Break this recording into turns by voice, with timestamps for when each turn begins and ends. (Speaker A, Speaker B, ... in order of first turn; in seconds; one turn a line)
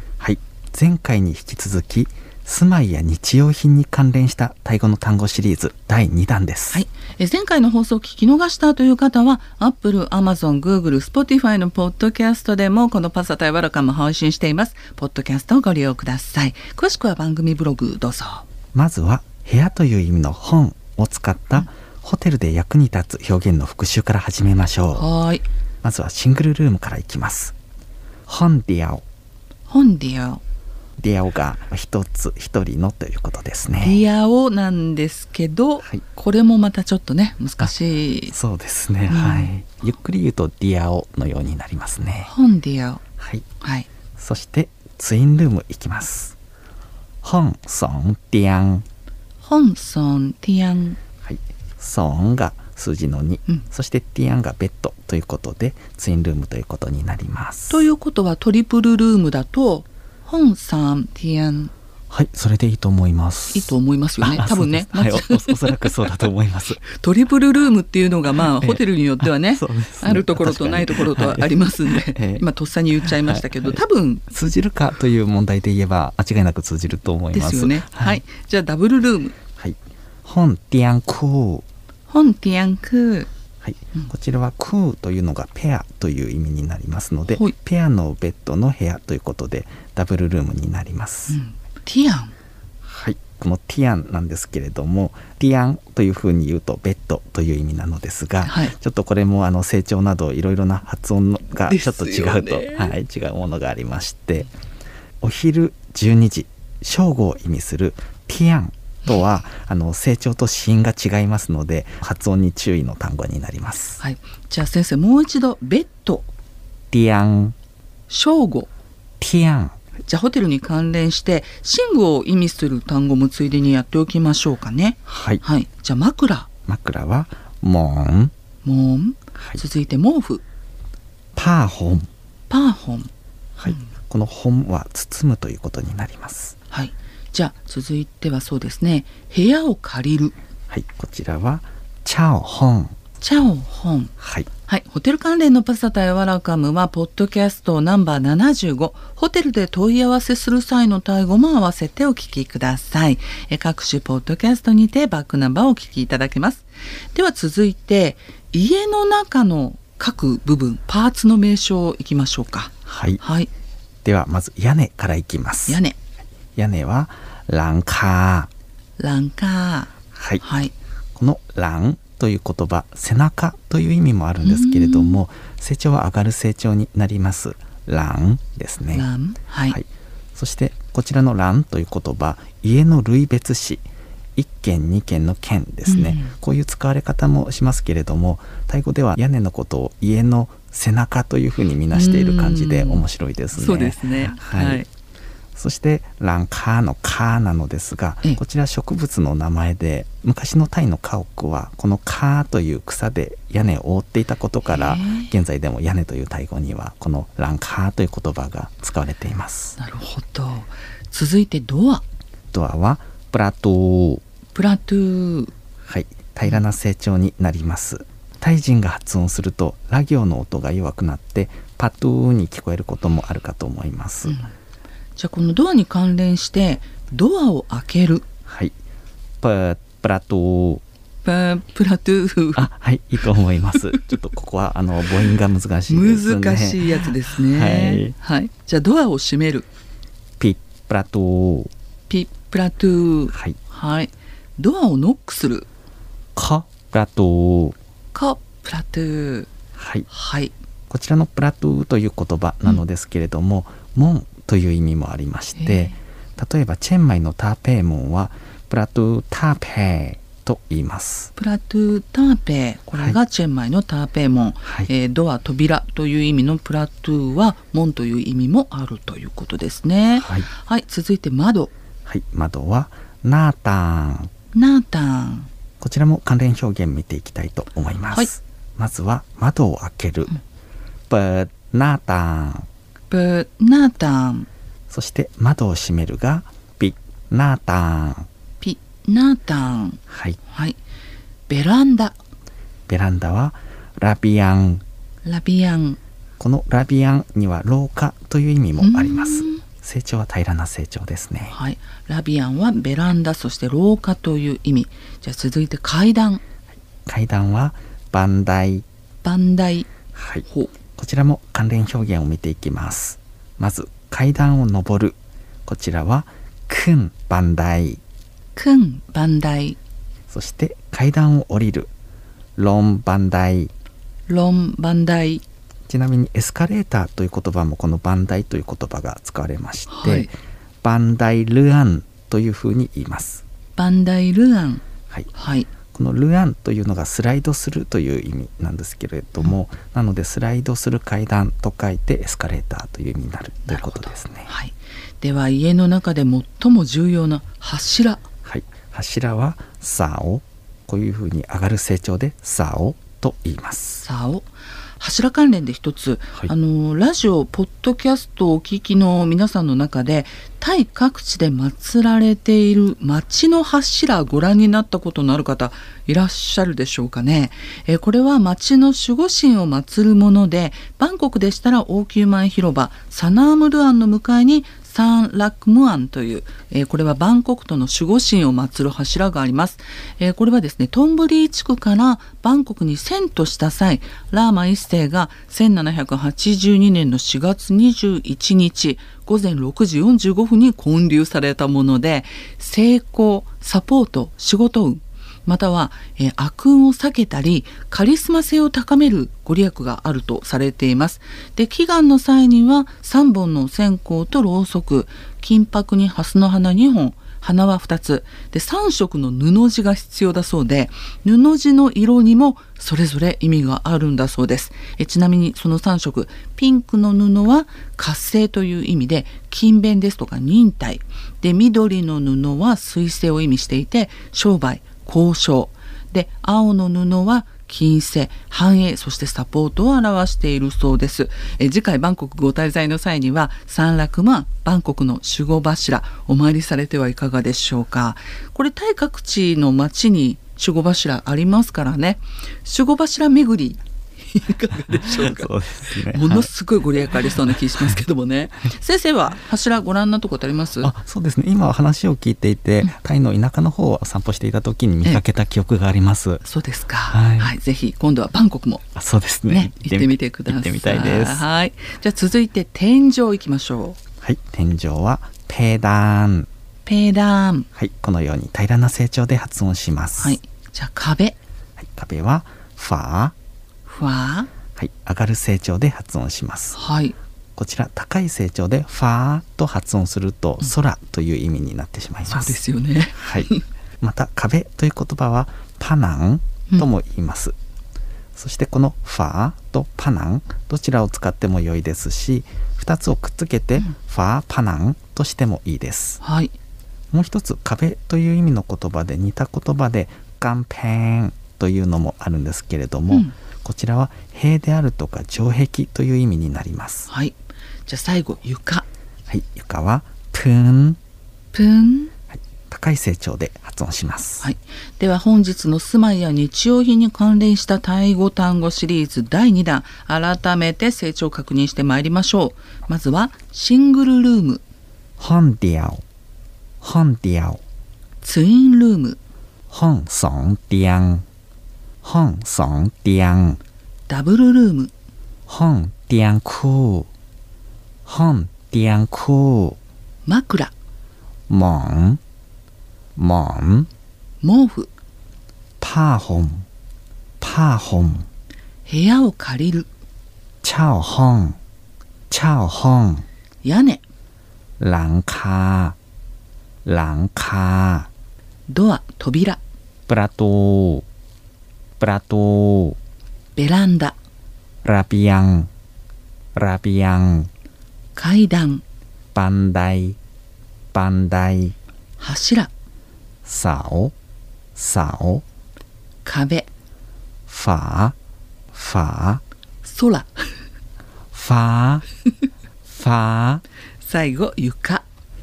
Speaker A: 0.2-6.8
Speaker B: 6.7-18.5
Speaker A: 18.7-25.1
Speaker B: 24.9-25.4
Speaker A: 25.8-27.6
Speaker A: 28.3-29.0
Speaker B: 29.7-30.4
Speaker A: 31.0-34.0
Speaker B: 33.8-38.4
Speaker A: 38.3-42.3
Speaker B: 39.1-39.5
Speaker B: 42.2-43.0
Speaker A: 43.2-43.5
Speaker B: 43.6-43.9
Speaker A: 44.2-46.4
Speaker A: 47.2-48.8
Speaker B: 49.4-51.0
Speaker A: 51.2-57.9
Speaker B: 57.7-61.7
Speaker A: 62.1-66.8
Speaker B: 63.5-74.2
Speaker A: 68.4-72.4
Speaker A: 73.0-78.2
Speaker B: 77.3-79.3
Speaker A: 79.6-81.7
Speaker B: 82.1-83.3
Speaker A: 83.6-91.4
Speaker B: 87.3-87.5
Speaker B: 91.3-92.3
Speaker A: 92.8-104.5
Speaker B: 98.4-98.7
Speaker B: 101.5-102.9
Speaker A: 105.2-114.0
Speaker B: 114.0-116.3
Speaker A: 116.9-117.5
Speaker B: 118.1-118.7
Speaker A: 119.2-119.8
Speaker B: 120.0-126.5
Speaker A: 125.1-125.4
Speaker A: 126.7-128.3
Speaker B: 128.6-130.4
Speaker A: 131.3-132.1
Speaker B: 132.5-133.1
Speaker A: 133.6-136.6
Speaker B: 136.7-140.3
Speaker A: 140.7-142.9
Speaker B: 143.2-144.1
Speaker A: 144.2-144.5
Speaker B: 144.6-163.5
Speaker A: 162.9-163.2
Speaker A: 164.0-165.8
Speaker B: 165.7-165.9
Speaker A: 166.6-168.5
Speaker B: 169.0-170.7
Speaker A: 170.1-170.4
Speaker A: 171.1-179.1
Speaker B: 174.4-175.2
Speaker B: 178.9-179.8
Speaker A: 179.7-194.8
Speaker B: 185.8-186.3
Speaker B: 191.9-194.9
Speaker A: 195.5-209.8
Speaker B: 204.7-205.3
Speaker B: 209.8-212.0
Speaker A: 212.5-214.2
Speaker B: 214.5-215.5
Speaker A: 215.8-224.4
Speaker B: 224.3-224.5
Speaker B: 225.2-228.2
Speaker A: 228.5-228.8
Speaker A: 229.4-230.8
Speaker B: 231.2-232.7
Speaker A: 232.6-238.1
Speaker B: 233.7-234.1
Speaker B: 235.9-239.7
Speaker A: 240.4-241.7
Speaker B: 242.1-245.7
Speaker A: 243.3-243.6
Speaker A: 246.3-247.8
Speaker B: 248.1-249.5
Speaker A: 249.8-250.1
Speaker B: 250.1-250.5
Speaker A: 250.9-261.3
Speaker B: 255.6-255.9
Speaker B: 261.4-271.7
Speaker A: 270.2-270.5
Speaker A: 272.1-274.3
Speaker B: 274.5-275.5
Speaker A: 275.8-280.3
Speaker A: 281.1-282.7
Speaker B: 283.1-284.5
Speaker A: 284.9-288.3
Speaker B: 288.6-290.8
Speaker A: 290.1-290.4
Speaker B: 291.5-292.1
Speaker A: 292.9-294.8
Speaker B: 295.2-296.0
Speaker A: 296.4-301.6
Speaker B: 298.8-299.6
Speaker B: 301.5-306.4
Speaker A: 307.1-308.8
Speaker B: 309.2-309.9
Speaker A: 310.1-318.0
Speaker B: 310.4-310.7
Speaker B: 318.5-319.8
Speaker A: 320.3-321.9
Speaker A: 322.6-323.7
Speaker B: 324.3-325.4
Speaker A: 325.9-333.4
Speaker B: 329.9-330.3
Speaker B: 333.8-335.7
Speaker A: 335.9-344.5
Speaker B: 343.7-348.2
Speaker A: 348.4-354.0
Speaker B: 354.0-450.9
Speaker A: 444.9-446.5
Speaker A: 450.8-456.4
Speaker B: 456.4-458.8
Speaker A: 457.1-457.5
Speaker A: 458.9-461.4
Speaker B: 459.5-464.0
Speaker A: 464.2-466.5
Speaker B: 466.9-467.7
Speaker A: 467.7-470.4
Speaker B: 470.2-471.4
Speaker A: 471.8-473.3
Speaker B: 473.9-474.5
Speaker A: 474.7-476.8
Speaker B: 476.7-477.1
Speaker A: 477.6-482.6
Speaker B: 482.3-483.6
Speaker A: 483.1-483.5
Speaker A: 484.0-487.5
Speaker A: 488.3-496.2
Speaker B: 496.2-496.5
Speaker A: 497.1-507.1
Speaker B: 507.1-508.9
Speaker A: 509.3-511.0
Speaker B: 511.5-512.1
Speaker A: 512.3-514.5
Speaker B: 514.4-524.6
Speaker A: 525.2-526.0
Speaker A: 526.8-527.6
Speaker B: 528.2-529.2
Speaker A: 529.7-531.2
Speaker A: 532.0-533.6
Speaker B: 534.1-534.9
Speaker A: 535.5-537.1
Speaker A: 538.0-539.8
Speaker B: 540.2-540.7
Speaker A: 541.5-542.2
Speaker A: 543.2-543.9
Speaker B: 544.4-544.9
Speaker A: 545.8-546.7
Speaker A: 547.4-548.3
Speaker B: 548.9-549.9
Speaker A: 550.6-551.6
Speaker A: 552.3-553.2
Speaker B: 553.6-554.0
Speaker A: 554.8-556.0
Speaker A: 556.9-558.1
Speaker B: 558.7-559.6
Speaker A: 560.1-561.0
Speaker A: 562.0-563.0
Speaker B: 563.5-564.1
Speaker A: 564.8-565.7
Speaker A: 566.5-567.5
Speaker B: 568.1-568.8
Speaker A: 569.3-570.2
Speaker A: 570.9-571.7
Speaker B: 572.2-572.7
Speaker A: 573.4-574.1
Speaker A: 574.7-575.4
Speaker B: 576.2-576.7
Speaker A: 577.5-578.1
Speaker A: 578.7-579.4
Speaker B: 579.8-580.5
Speaker A: 581.3-582.0
Speaker A: 582.9-583.6
Speaker B: 584.0-585.0